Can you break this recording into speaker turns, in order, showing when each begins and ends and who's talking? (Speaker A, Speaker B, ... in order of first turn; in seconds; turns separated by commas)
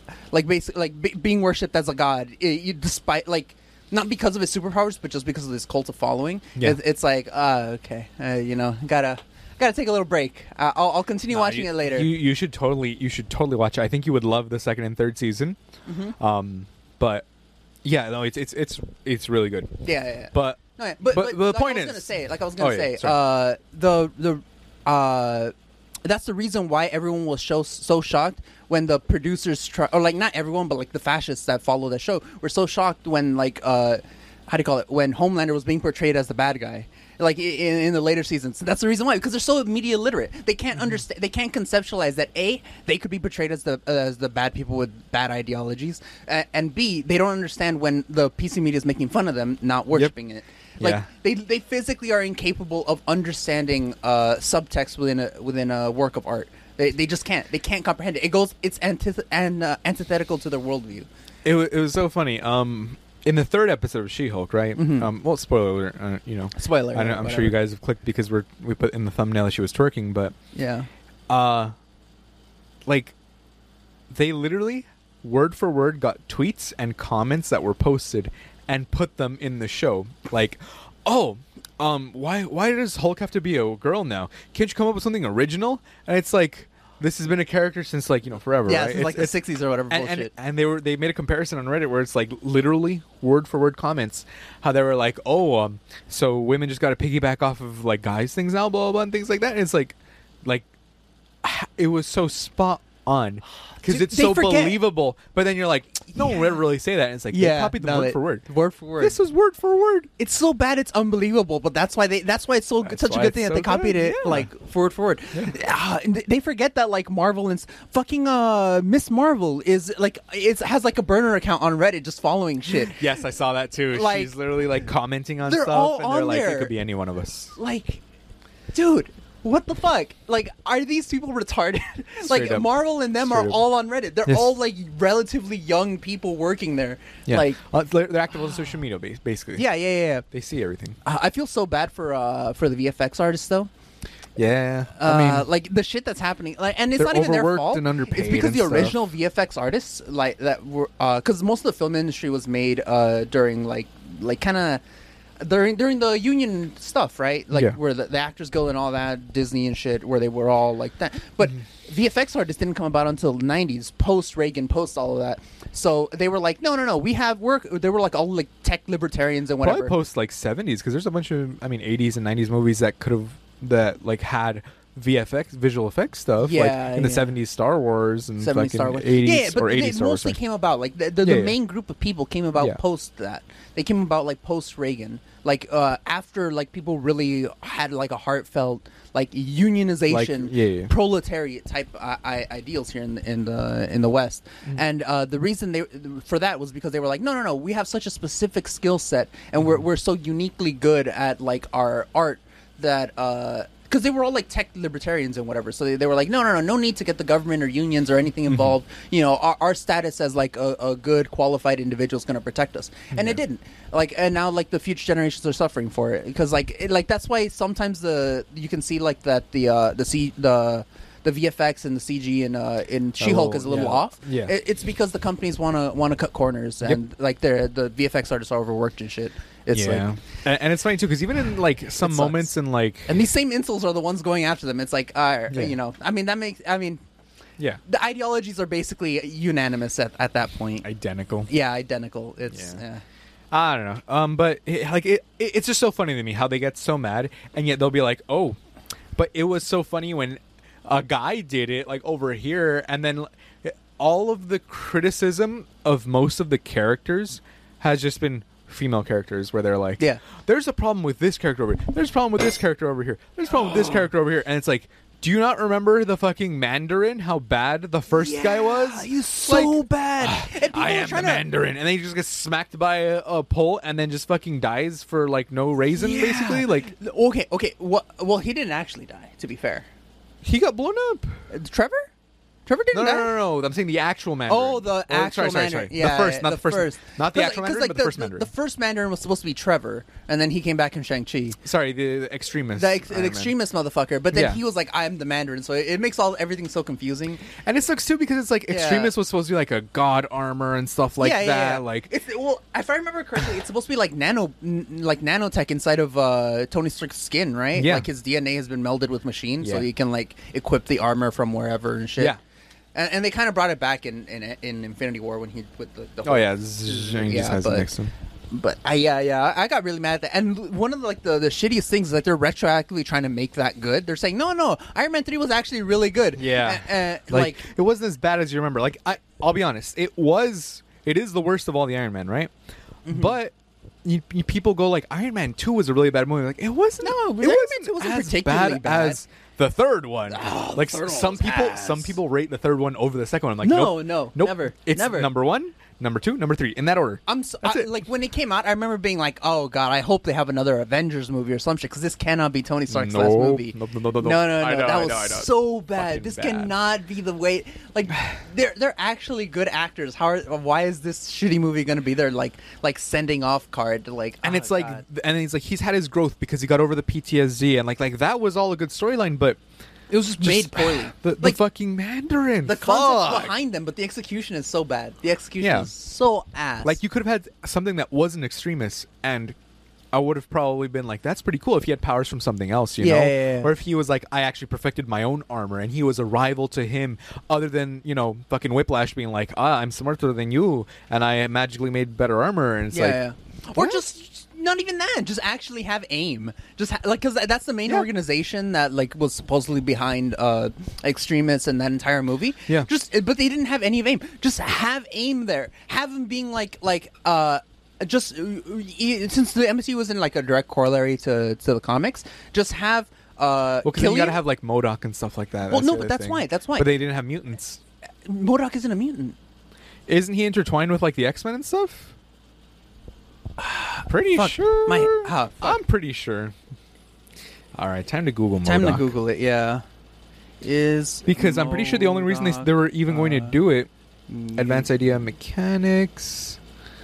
Speaker A: 0.3-12.1, Speaker B: 11.3-15.6, Speaker A: 15.8-16.1, Speaker B: 16.2-17.3, Speaker B: 17.8-23.2, Speaker A: 19.8-25.5, Speaker A: 26.0-61.1, Speaker B: 50.8-51.0, Speaker B: 61.4-70.3, Speaker A: 64.8-65.1, Speaker A: 66.5-67.5, Speaker A: 70.5-70.9, Speaker B: 71.3-71.7, Speaker B: 72.8-73.1, Speaker B: 74.1-89.3, Speaker A: 88.7-90.3, Speaker B: 89.9-100.7, Speaker B: 101.4-108.5, Speaker A: 103.8-104.8, Speaker A: 106.2-106.5, Speaker A: 107.3-109.2, Speaker B: 109.0-110.1, Speaker A: 110.2-123.1, Speaker B: 112.8-114.5, Speaker B: 122.7-127.5, Speaker A: 123.9-124.3, Speaker A: 125.4-126.7, Speaker A: 127.5-128.0, Speaker A: 128.7-137.6, Speaker B: 132.2-133.6, Speaker B: 134.2-134.5, Speaker B: 137.3-139.7, Speaker A: 139.5-140.2, Speaker B: 140.3-141.0, Speaker A: 141.0-143.7, Speaker B: 144.3-145.5, Speaker A: 144.9-154.8, Speaker B: 146.9-148.9, Speaker A: 155.4-169.9, Speaker B: 169.6-180.4, Speaker A: 176.4-177.3, Speaker A: 178.4-230.1, Speaker B: 181.2-181.5, Speaker B: 190.1-190.9, Speaker B: 213.1-213.4, Speaker B: 223.2-224.5, Speaker B: 229.7-233.3, Speaker A: 232.0-232.5, Speaker A: 233.1-237.0, Speaker B: 235.5-235.8, Speaker A: 237.8-240.8, Speaker B: 240.8-241.5, Speaker A: 241.5-243.0, Speaker B: 242.5-242.8, Speaker B: 243.5-248.6, Speaker B: 249.1-276.9, Speaker A: 268.1-271.4, Speaker A: 275.9-279.9, Speaker B: 280.4-281.4, Speaker A: 281.5-282.1, Speaker A: 282.7-283.3, Speaker B: 282.9-288.5, Speaker A: 284.5-291.6, Speaker B: 291.6-293.5, Speaker A: 292.7-297.4, Speaker B: 294.3-294.6, Speaker B: 297.5-302.1, Speaker A: 298.7-299.1, Speaker A: 301.2-312.4, Speaker B: 307.8-308.1, Speaker B: 309.6-309.9, Speaker A: 312.9-317.9, Speaker B: 316.2-318.1, Speaker A: 318.5-327.6, Speaker B: 326.3-332.5, Speaker A: 333.1-333.3, Speaker B: 333.1-333.5, Speaker B: 334.0-347.9, Speaker A: 337.0-339.2, Speaker A: 340.3-342.1, Speaker A: 343.6-345.3, Speaker A: 347.3-365.0, Speaker B: 352.9-356.7, Speaker B: 364.4-369.6, Speaker A: 370.1-371.6, Speaker B: 370.1-373.5, Speaker A: 372.6-377.0, Speaker B: 375.6-375.9, Speaker B: 376.8-379.6, Speaker B: 380.1-393.2, Speaker A: 383.0-383.7, Speaker A: 392.9-414.4, Speaker B: 413.8-417.8, Speaker A: 415.7-416.9, Speaker A: 418.2-419.4, Speaker B: 420.1-422.1, Speaker A: 423.6-425.8, Speaker B: 424.1-426.6, Speaker B: 427.7-429.1, Speaker A: 428.6-429.8, Speaker A: 430.6-433.6, Speaker B: 431.2-433.9, Speaker A: 434.3-434.9, Speaker B: 434.5-436.6